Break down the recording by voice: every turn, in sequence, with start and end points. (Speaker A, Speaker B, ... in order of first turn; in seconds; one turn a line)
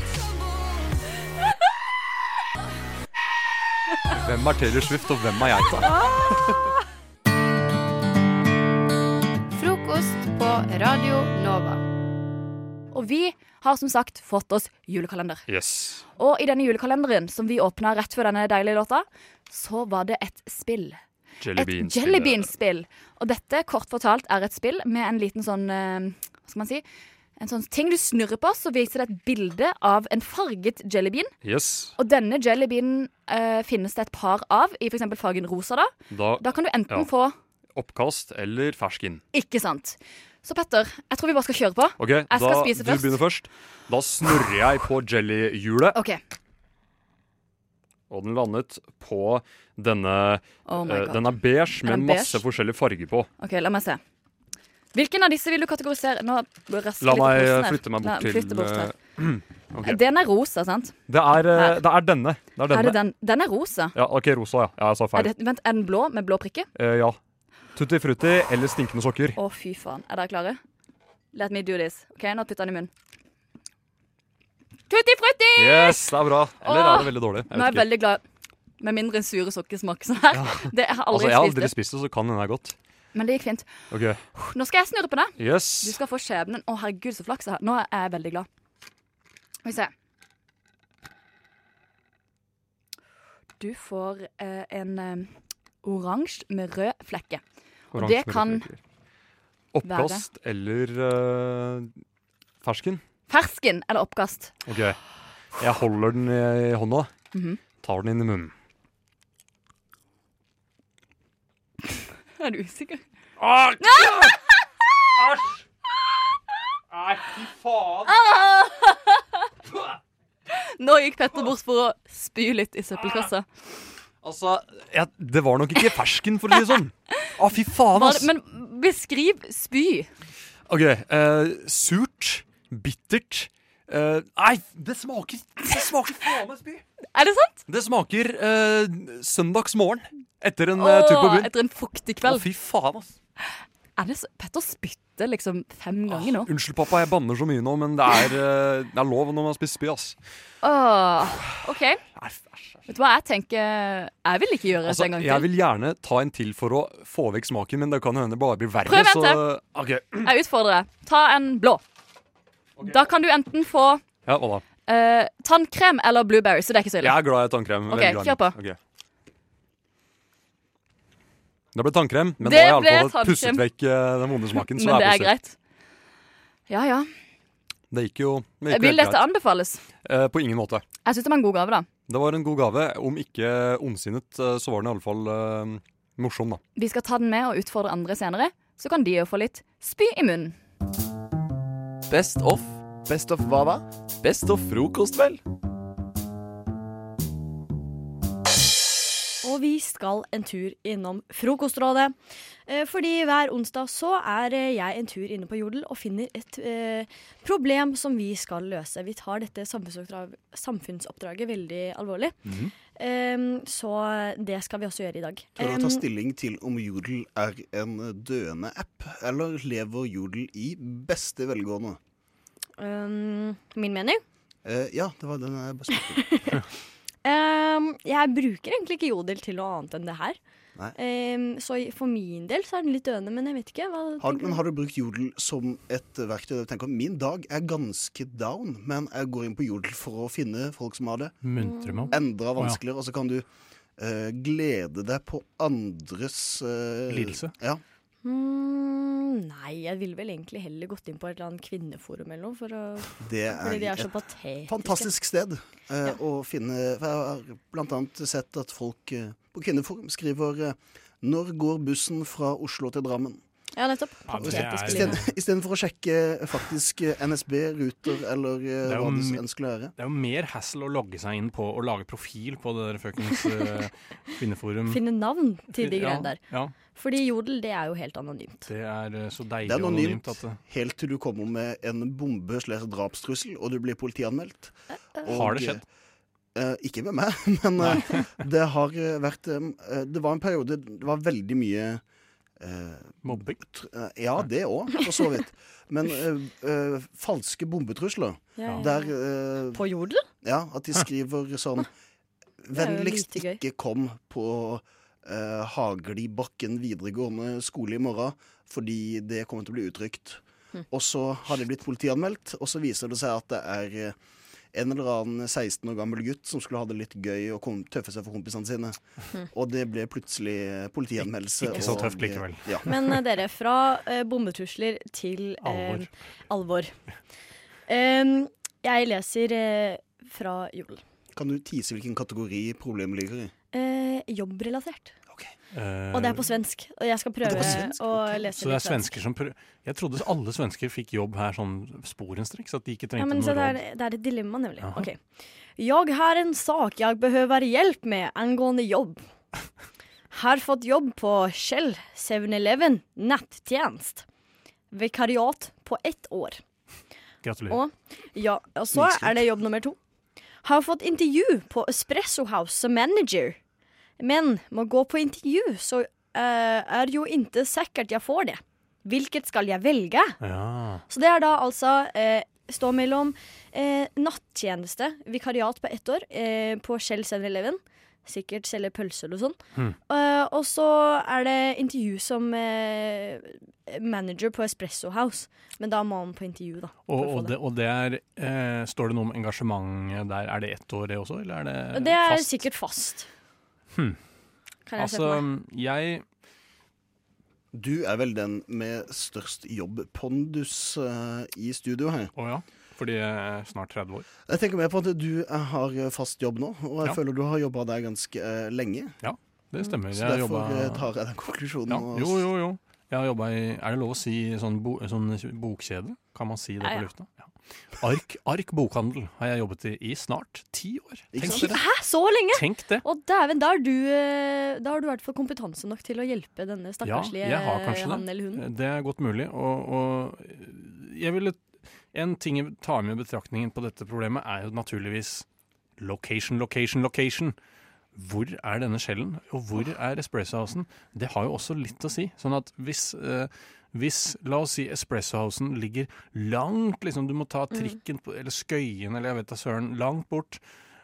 Speaker A: 4.1-6.5
Speaker B: 12.9-15.4
Speaker A: 15.5-16.0
Speaker B: 16.2-21.0
Speaker A: 21.4-22.5
Speaker B: 21.5-26.8
Speaker B: 27.4-31.3
Speaker A: 31.4-31.9
Speaker B: 32.0-37.4
Speaker A: 36.1-37.1
Speaker A: 37.7-39.2
Speaker B: 39.3-43.2
Speaker A: 42.0-46.0
Speaker B: 45.9-46.2
Speaker A: 48.1-53.3
Speaker B: 50.7-52.4
Speaker B: 53.4-54.0
Speaker B: 54.9-58.9
Speaker A: 57.0-60.0
Speaker B: 59.8-61.0
Speaker A: 61.1-63.0
Speaker B: 61.5-61.8
Speaker B: 62.7-64.0
Speaker A: 63.9-65.3
Speaker B: 65.1-66.7
Speaker A: 66.8-67.2
Speaker A: 67.7-69.4
Speaker B: 69.3-70.6
Speaker B: 71.3-72.9
Speaker B: 74.9-78.2
Speaker A: 75.5-77.9
Speaker B: 78.8-81.7
Speaker A: 80.3-82.8
Speaker B: 83.1-83.7
Speaker A: 83.9-84.2
Speaker B: 84.3-88.5
Speaker A: 85.4-86.0
Speaker B: 89.6-89.9
Speaker B: 93.6-95.3
Speaker B: 95.8-97.4
Speaker A: 97.9-98.8
Speaker B: 97.9-98.7
Speaker A: 99.7-101.9
Speaker B: 99.8-100.2
Speaker A: 102.6-103.0
Speaker B: 103.3-104.5
Speaker A: 104.7-105.0
Speaker A: 105.6-107.1
Speaker B: 107.3-107.6
Speaker A: 107.8-108.5
Speaker B: 112.4-113.0
Speaker A: 113.4-114.3
Speaker B: 113.8-114.4
Speaker A: 115.1-115.6
Speaker A: 116.9-118.1
Speaker B: 118.0-119.2
Speaker B: 120.5-123.5
Speaker A: 124.2-128.3
Speaker B: 127.9-130.1
Speaker A: 130.7-136.8
Speaker B: 137.1-137.6
Speaker A: 137.7-141.5
Speaker B: 140.8-142.4
Speaker A: 142.2-143.1
Speaker B: 143.4-146.5
Speaker A: 146.1-150.2
Speaker B: 150.6-152.0
Speaker A: 152.1-152.8
Speaker B: 152.9-155.5
Speaker A: 154.8-160.3
Speaker B: 158.8-159.4
Speaker B: 160.2-161.8
Speaker B: 162.8-164.0
Speaker A: 164.2-164.6
Speaker B: 164.9-167.2
Speaker A: 167.0-168.8
Speaker B: 167.9-168.6
Speaker A: 171.7-175.3
Speaker B: 172.4-173.6
Speaker B: 174.6-175.5
Speaker B: 176.7-177.1
Speaker A: 177.9-179.2
Speaker B: 178.7-179.8
Speaker A: 180.0-180.8
Speaker B: 181.0-181.9
Speaker A: 182.1-186.6
Speaker B: 186.8-190.6
Speaker C: 192.1-195.4
Speaker D: 199.4-202.1
Speaker D: 202.7-216.0
Speaker E: 215.6-222.0
Speaker D: 222.8-224.2
Speaker E: 224.6-226.2
Speaker D: 225.9-226.5
Speaker D: 227.2-230.4
Speaker D: 230.9-234.6
Speaker E: 234.2-241.3
Speaker F: 241.4-242.8
Speaker D: 241.6-242.2
Speaker E: 242.1-243.4
Speaker E: 244.0-247.8
Speaker F: 247.1-247.5
Speaker D: 248.2-255.1
Speaker E: 253.2-263.4
Speaker D: 263.8-265.2
Speaker F: 264.3-265.2
Speaker E: 264.4-269.9
Speaker F: 268.8-269.4
Speaker F: 270.0-275.0
Speaker D: 273.3-273.7
Speaker D: 274.9-278.7
Speaker F: 275.7-276.8
Speaker F: 278.7-280.6
Speaker E: 279.6-284.7
Speaker E: 285.2-285.8
Speaker F: 285.3-285.8
Speaker E: 286.5-292.0
Speaker E: 292.6-299.8
Speaker F: 293.2-293.6
Speaker D: 298.6-299.1
Speaker D: 299.7-300.2
Speaker E: 300.4-301.9
Speaker E: 302.6-314.1
Speaker D: 302.7-303.6
Speaker E: 314.7-319.0
Speaker E: 319.5-322.9
Speaker F: 321.6-322.8
Speaker D: 321.8-322.1
Speaker D: 322.8-326.9
Speaker F: 325.6-326.1
Speaker D: 327.9-331.0
Speaker E: 331.3-333.5
Speaker D: 333.7-335.1
Speaker F: 335.7-336.5
Speaker D: 336.1-339.2
Speaker E: 337.4-338.1
Speaker F: 337.5-337.9
Speaker F: 338.5-343.8
Speaker D: 343.2-345.2
Speaker F: 344.8-345.1
Speaker D: 345.8-349.2
Speaker D: 350.3-354.2
Speaker D: 354.9-356.6
Speaker F: 357.4-357.8
Speaker D: 357.7-360.0
Speaker E: 358.9-359.4
Speaker D: 360.6-363.6
Speaker D: 364.2-370.4
Speaker F: 370.4-371.0
Speaker D: 371.1-387.6
Speaker F: 387.1-392.6
Speaker D: 391.9-393.3
Speaker F: 393.9-394.2
Speaker D: 394.9-395.4
Speaker F: 395.0-396.2
Speaker E: 397.7-402.3
Speaker F: 402.4-404.3
Speaker E: 404.5-409.1
Speaker F: 409.2-411.1
Speaker E: 410.1-412.5
Speaker F: 411.9-421.8
Speaker E: 421.3-421.7
Speaker D: 421.4-428.6
Speaker F: 422.5-423.0
Speaker F: 427.0-435.4
Speaker F: 436.0-437.6
Speaker F: 438.1-450.6